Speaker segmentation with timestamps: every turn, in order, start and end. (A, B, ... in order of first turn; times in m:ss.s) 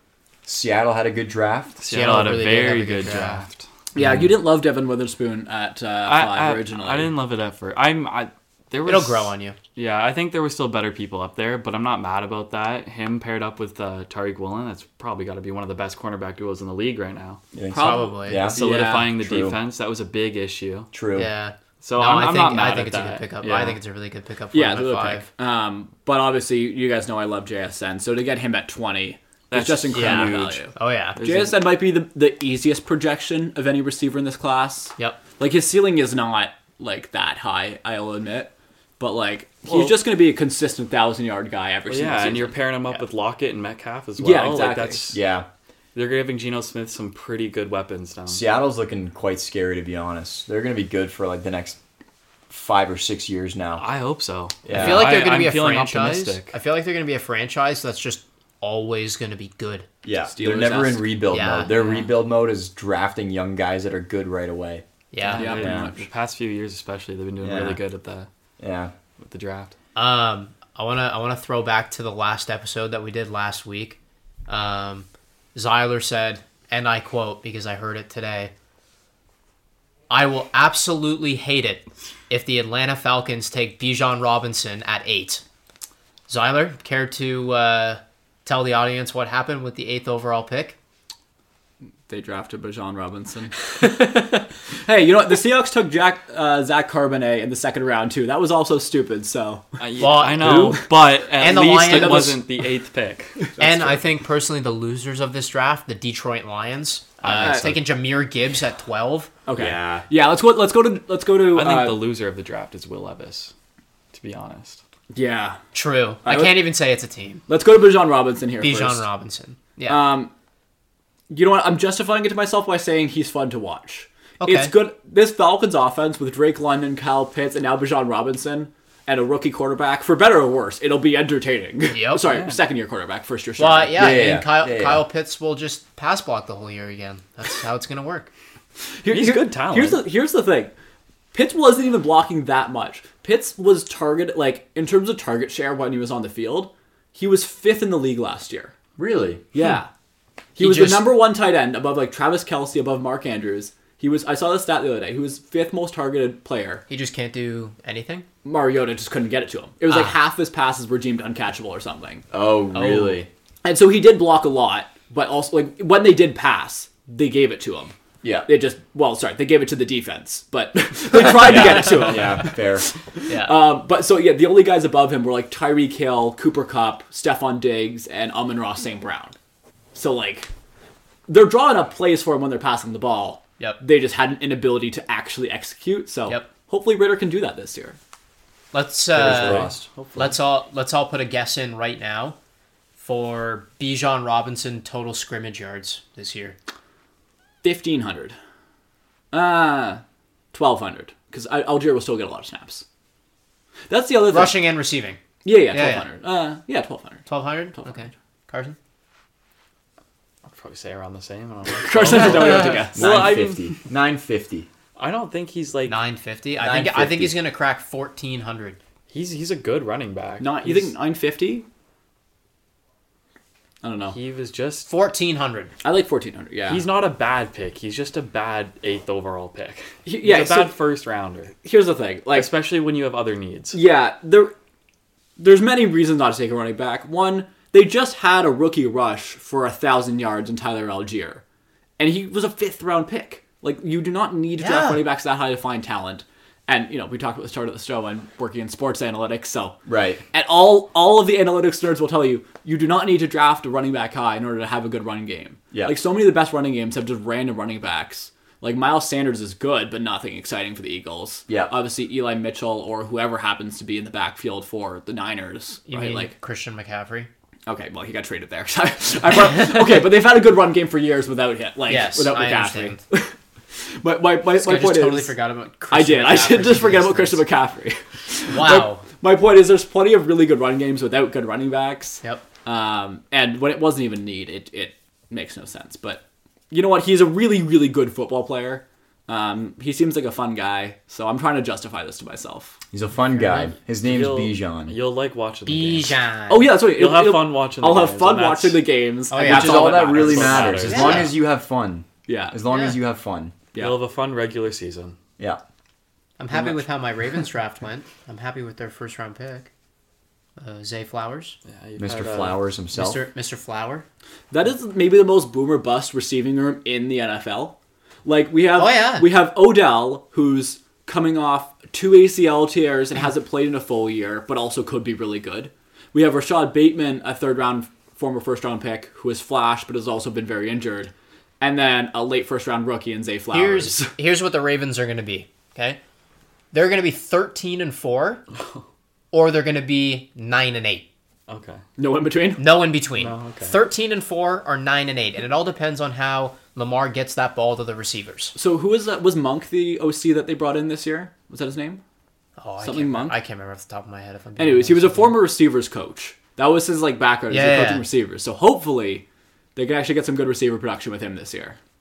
0:00.4-0:01.8 A
0:01.8-0:03.6 B
0:01.9-0:03.4 C
0:03.9-0:07.1 D
0:04.0-0:04.3 A
0:06.0-0:17.4 B
0:08.8-0:09.6 C
0:17.5-0:18.6 A
0:17.7-0:19.2 D
0:17.7-0:18.5 C
0:18.4-0:20.9 B
0:19.2-0:19.6 A
0:20.9-0:21.3 A
0:21.1-0:25.2 C
0:21.8-0:23.8 B
0:24.5-0:43.0 D
0:29.5-0:30.6 B
0:29.9-0:31.2 C
0:31.2-0:31.6 B
0:39.7-0:40.0 B
0:41.9-0:45.2 B
0:44.2-0:45.1 D
0:45.1-0:45.4 A
0:45.9-0:48.4 B
0:48.3-0:51.8 A
0:52.5-0:53.8 A
0:53.8-0:56.6 B
0:54.6-0:55.2 A
0:54.7-0:59.9 C
1:00.0-1:04.8 A
1:00.3-1:01.1 D
1:01.3-1:02.1 C
1:05.1-1:05.6 C
1:05.2-1:06.0 D
1:05.2-1:08.3 B
1:05.6-1:05.9 A
1:07.4-1:07.8 A
1:08.6-1:08.9 A
1:09.2-1:09.7 B
1:09.9-1:18.5 C
1:20.1-1:25.4 C
1:26.3-1:30.8 C
1:32.1-1:33.7 D
1:33.8-1:34.5 C
1:34.8-1:40.9 D
1:39.8-1:43.5 B
1:40.0-1:40.8 C
1:41.4-1:42.4 C
1:41.7-1:42.4 D
1:43.4-1:44.0 D
1:43.6-1:49.3 C
1:47.2-1:47.8 D
1:49.4-1:52.0 D
1:49.5-1:50.0 A
1:51.5-1:53.5 B
1:54.1-1:54.8 B
1:55.1-1:55.6 D
1:55.7-1:57.4 C
1:56.2-1:56.6 D
1:57.5-1:59.0 D
1:58.6-2:00.0 C
1:59.9-2:00.3 D
2:01.3-2:14.0 D
2:04.4-2:04.7 C
2:11.9-2:12.2 C
2:12.3-2:12.6 B
2:13.6-2:18.3 C
2:13.9-2:15.0 A
2:19.0-2:20.7 D
2:19.1-2:20.0 B
2:21.3-2:28.7 D
2:29.0-2:29.4 A
2:29.5-2:29.9 D
2:30.6-2:36.8 D
2:30.6-2:31.1 C
2:36.9-2:38.2 C
2:38.4-2:42.2 D
2:39.9-2:40.1 C
2:42.3-2:43.3 A
2:42.7-2:43.2 C
2:43.6-2:47.9 D
2:48.2-2:48.5 A
2:48.5-2:59.3 D
2:51.4-2:52.9 A
2:53.3-2:53.6 C
2:59.9-3:00.5 D
3:01.3-3:08.0 D
3:08.7-3:12.4 C
3:09.1-3:09.9 A
3:09.2-3:10.3 B
3:13.0-3:16.6 C
3:17.6-3:18.3 D
3:19.3-3:20.0 D
3:20.5-3:22.8 D
3:23.9-3:24.6 D
3:24.3-3:25.2 C
3:25.4-3:27.3 D
3:25.7-3:26.0 C
3:27.3-3:28.8 C
3:27.8-3:28.1 D
3:30.4-3:33.8 B
3:31.7-3:33.0 D
3:32.9-3:34.7 A
3:35.0-3:36.0 B
3:35.8-3:38.8 C
3:36.6-3:37.4 A
3:39.1-3:40.9 B
3:40.4-3:41.6 D
3:43.8-3:44.2 D
3:44.1-3:44.9 B
3:44.9-3:45.7 C
3:45.8-3:46.8 D
3:46.7-3:51.5 B
3:50.0-3:50.7 D
3:51.6-3:52.5 D
3:52.3-3:53.8 B
3:53.7-3:54.5 D
3:55.4-4:01.4 D
4:02.0-4:09.8 D
4:04.6-4:05.0 C
4:09.9-4:10.2 A
4:10.3-4:26.3 D
4:21.5-4:21.7 A
4:25.9-4:27.3 C
4:27.6-4:35.4 D
4:31.9-4:33.0 C
4:34.5-4:37.4 C
4:35.9-4:52.8 D
4:38.5-4:39.0 C
4:52.9-4:54.9 A
4:53.4-4:53.7 C
4:54.0-4:56.2 B
4:55.6-4:56.7 C
4:56.5-5:01.3 D
4:56.9-4:58.8 B
4:59.3-5:00.0 C
4:59.4-5:03.5 A
4:59.5-5:01.3 B
5:00.8-5:01.3 C
5:02.2-5:02.6 D
5:02.7-5:03.0 C
5:03.8-5:05.2 B
5:06.4-5:09.7 C
5:10.6-5:11.6 C
5:11.6-5:12.6 B
5:12.0-5:13.2 A
5:12.9-5:14.0 C
5:14.5-5:34.1 D
5:18.7-5:19.3 C
5:33.5-5:36.0 C
5:36.7-5:38.4 C
5:39.3-5:41.0 C
5:41.5-5:41.8 B
5:42.0-5:42.6 D
5:42.6-5:48.5 C
5:43.2-5:43.8 B
5:48.5-5:52.0 D
5:52.6-5:55.4 C
5:52.8-5:53.3 D
5:54.6-5:59.2 D
5:57.5-5:58.0 C
5:59.8-6:01.8 D